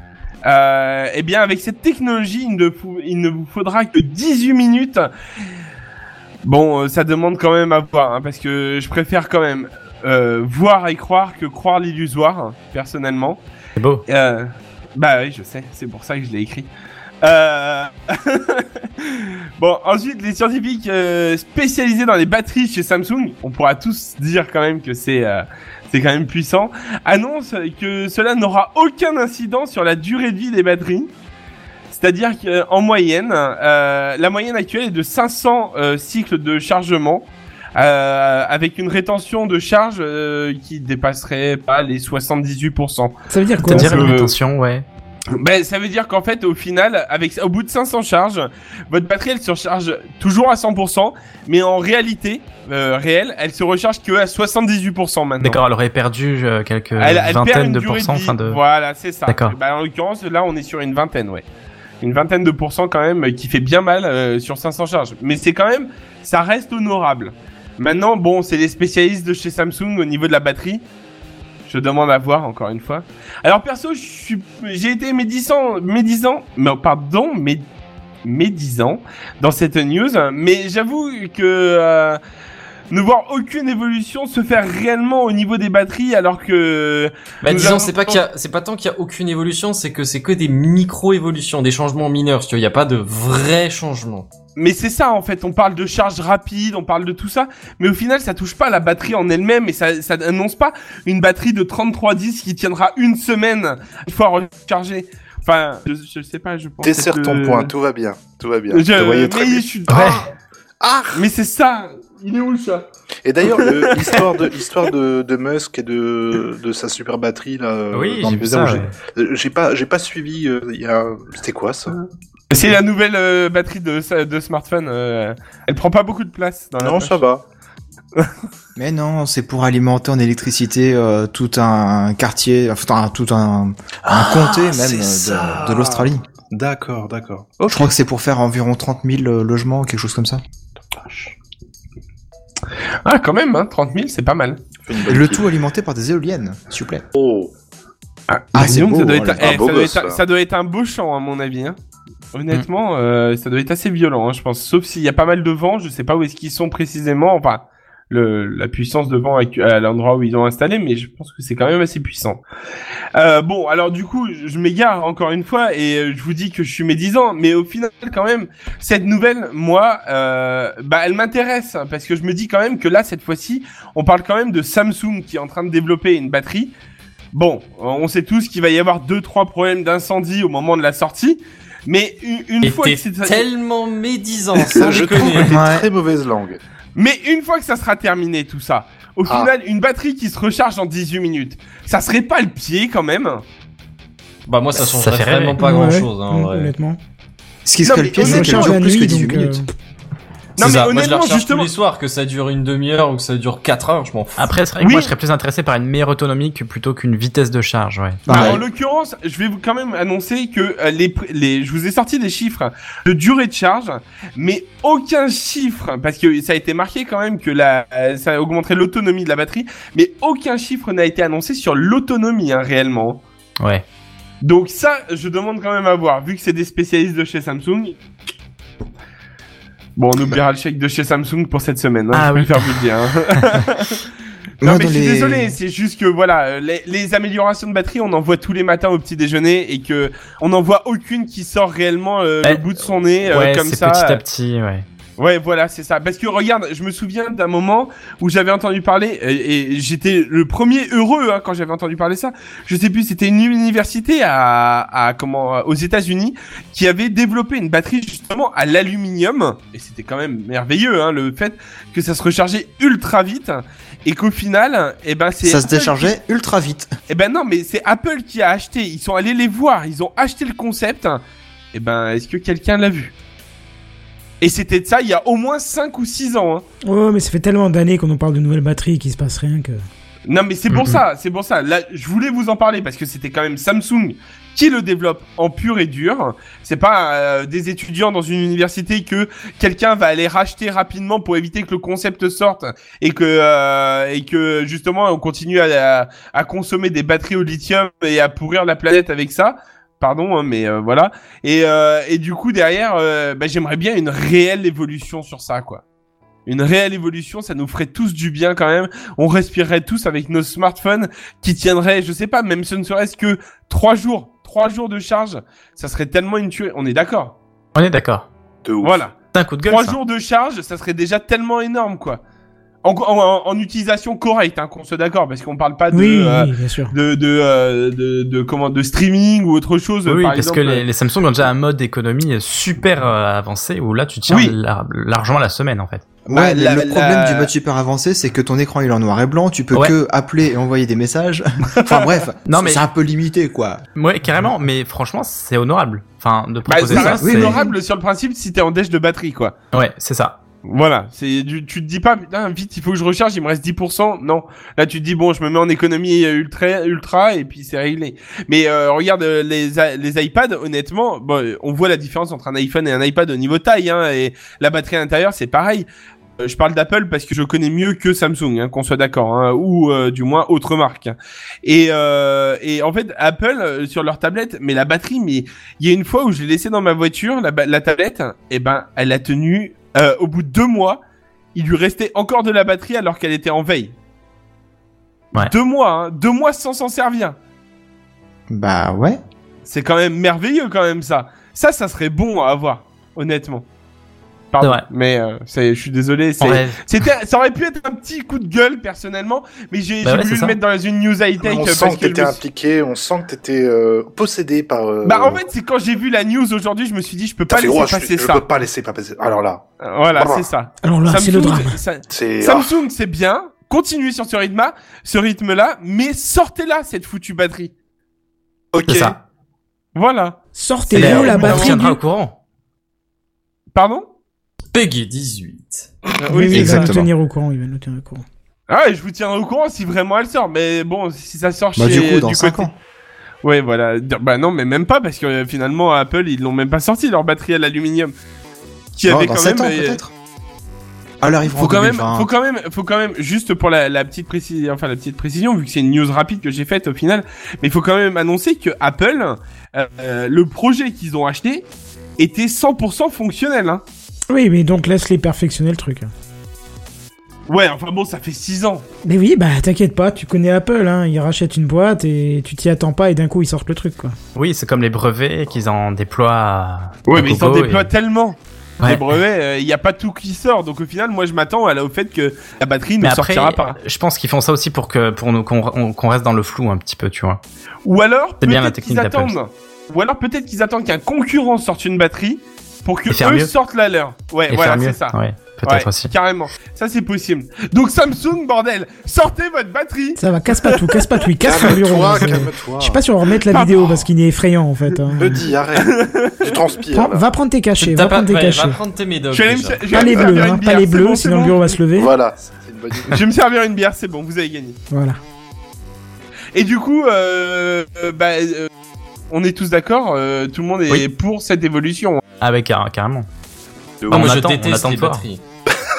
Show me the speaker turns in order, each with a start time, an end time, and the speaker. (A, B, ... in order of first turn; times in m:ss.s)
0:00.4-0:05.1 A
0:06.4-0:13.4 A
0:13.8-0:14.0 B
0:14.1-0:16.7 A
0:17.2-0:31.1 A
0:31.9-0:44.4 A
0:43.3-0:44.1 C
0:43.7-0:44.9 B
0:45.4-0:55.6 A
0:55.4-0:58.6 B
0:57.0-1:01.4 A
0:59.3-0:59.6 B
1:02.0-1:10.8 A
1:11.6-1:17.6 A
1:18.2-1:22.2 A
1:22.9-1:28.2 A
1:27.4-1:34.3 D
1:34.6-1:47.7 A
1:46.8-1:50.2 E
1:48.7-1:50.1 A
1:49.9-1:50.3 B
1:50.8-1:51.3 E
1:51.1-1:52.9 A
1:53.2-2:02.0 E
1:53.6-1:54.5 A
1:57.9-1:58.9 B
2:02.5-2:07.2 A
2:06.8-2:07.4 E
2:08.8-2:16.2 F
2:14.0-2:17.9 E
2:17.7-2:20.4 F
2:20.9-2:21.4 E
2:23.0-2:24.6 A
2:24.8-2:25.4 E
2:25.1-2:27.0 F
2:27.1-2:27.5 E
2:28.3-2:31.8 A
2:28.5-2:29.5 F
2:29.2-2:30.2 E
2:32.3-2:42.4 A
2:43.2-2:56.7 A
2:57.3-3:03.5 A
3:02.6-3:05.6 D
3:04.7-3:06.6 E
3:05.4-3:05.9 F
3:07.0-3:13.4 A
3:09.3-3:09.5 E
3:14.5-3:16.7 D
3:14.8-3:15.6 B
3:15.6-3:17.0 C
3:17.6-3:19.6 F
3:17.8-3:18.8 A
3:18.2-3:19.7 C
3:20.6-3:24.5 D
3:20.6-3:21.7 A
3:24.4-3:28.6 B
3:24.8-3:25.1 A
3:28.3-3:28.6 F
3:28.3-3:43.2 A
3:43.6-3:43.8 B
3:44.4-3:48.0 A
3:50.0-3:54.0 A
3:52.1-3:52.8 B
3:54.6-3:55.6 F
3:54.6-4:04.2 A
4:03.3-4:04.9 B
4:05.2-4:26.1 A
4:25.4-4:26.9 F
4:27.1-4:31.2 A
4:31.7-4:33.1 A
4:34.4-4:36.6 A
4:36.8-4:39.8 C
4:40.3-5:05.8 A
4:40.7-4:41.0 B
5:06.5-5:17.4 A
5:17.8-5:18.3 B
5:18.6-5:19.1 E
5:18.8-5:22.2 A
5:19.3-5:20.0 B
5:22.8-5:30.8 A
5:25.9-5:26.9 C
5:30.1-5:36.2 B
5:34.3-5:34.5 A
5:36.3-5:37.5 A
5:36.3-5:43.8 F
5:42.5-5:42.8 B
5:44.0-5:47.7 B
5:46.7-5:49.5 A
5:46.9-5:47.6 F
5:49.7-5:50.4 B
5:50.6-6:05.9 A
6:06.4-6:21.0 A
6:21.6-6:23.9 A
6:25.4-6:27.4 A
6:28.5-6:29.2 F
6:29.7-6:33.7 A
6:34.5-6:42.4 A
6:36.4-6:36.8 B
6:40.0-6:40.6 B
6:41.4-6:45.4 E
6:45.0-6:48.4 A
6:47.5-6:50.5 E
6:49.8-6:57.7 A
6:50.8-6:51.7 C
6:52.1-6:52.7 E
6:58.7-6:59.2 E
6:58.8-6:59.2 B
7:00.0-7:00.4 A
7:00.5-7:02.0 C
7:00.9-7:02.4 B
7:01.0-7:01.8 A
7:03.7-7:04.1 A
7:04.7-7:06.0 D
7:06.2-7:07.0 A
7:06.3-7:08.2 C
7:06.5-7:07.1 F
7:08.7-7:12.7 A
7:11.8-7:12.7 F
7:13.4-7:18.1 A
7:19.0-7:20.0 A
7:19.1-7:20.1 F
7:21.2-7:22.3 F
7:21.5-7:31.7 A
7:32.2-7:33.8 A
7:34.3-7:36.1 C
7:37.5-7:38.9 A
7:39.0-7:44.2 C
7:44.4-7:47.9 B
7:47.1-7:53.8 A
7:48.8-7:49.1 B
7:53.0-7:57.4 B
7:57.8-8:11.0 A
7:58.4-7:59.4 B
8:03.1-8:03.5 B
8:04.5-8:06.1 B
8:10.2-8:15.4 C
8:11.4-8:13.0 E
8:13.5-8:14.1 A
8:15.2-8:17.2 E
8:15.8-8:16.6 A
8:16.9-8:18.8 C
8:17.8-8:20.3 D
8:19.3-8:21.7 A
8:19.9-8:22.1 C
8:22.0-8:23.2 E
8:23.1-8:24.8 A
8:24.9-8:25.2 C
8:26.5-8:28.7 A
8:29.3-8:32.2 A
8:32.4-8:33.3 B
8:34.0-8:34.4 E
8:34.1-8:35.2 B
8:34.1-8:35.4 D